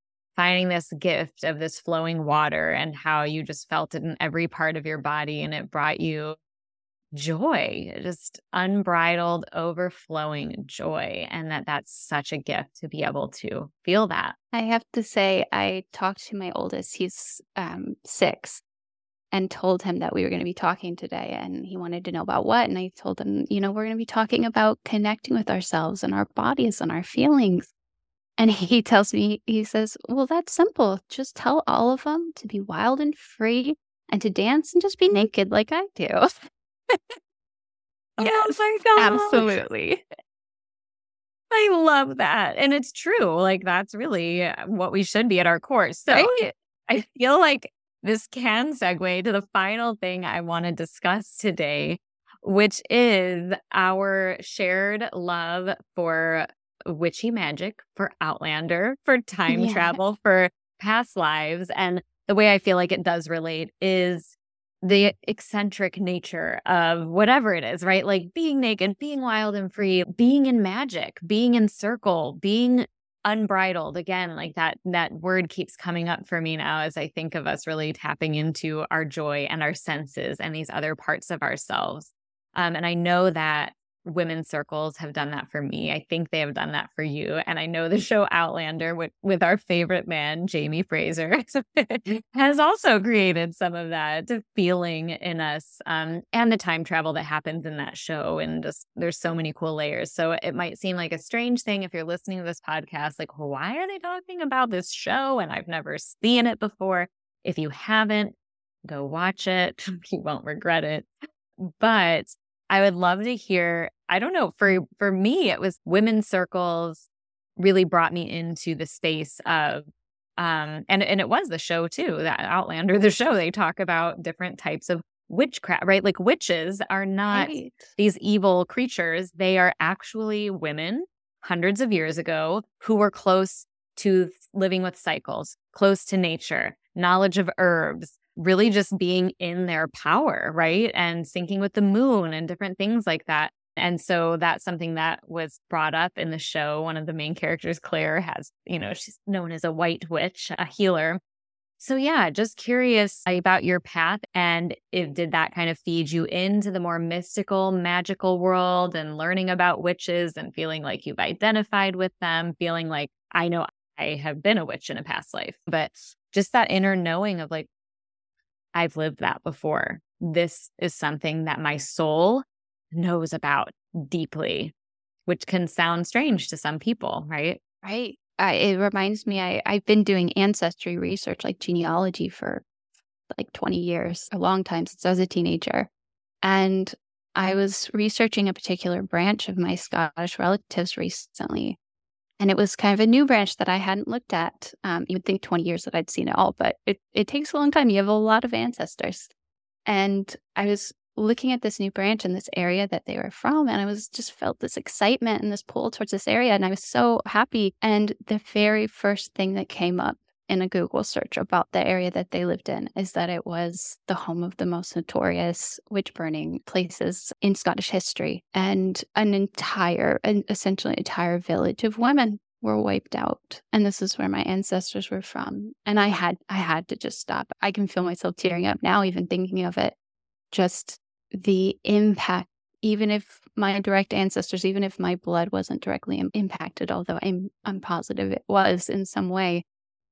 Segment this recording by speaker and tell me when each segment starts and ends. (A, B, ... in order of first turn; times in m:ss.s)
0:00.4-0:06.4 A
0:07.1-0:14.3 A
0:14.5-0:18.6 B
0:19.3-0:27.7 B
0:28.4-0:37.0 B
0:38.2-0:39.5 A
0:38.2-0:40.0 B
0:41.5-0:46.3 A
0:46.1-0:46.5 B
0:46.9-1:48.3 A
0:59.5-1:00.0 B
1:48.8-1:51.1 A
1:51.8-1:57.1 A
1:57.6-1:59.8 A
2:00.4-2:31.2 A
2:07.3-2:07.9 B
2:31.8-2:47.7 A
2:48.7-2:54.7 A
2:55.3-2:57.6 A
2:57.8-3:02.6 B
3:03.3-3:05.9 B
3:06.4-3:11.8 B
3:12.4-3:19.3 B
3:19.9-3:49.9 B
3:50.5-3:59.6 B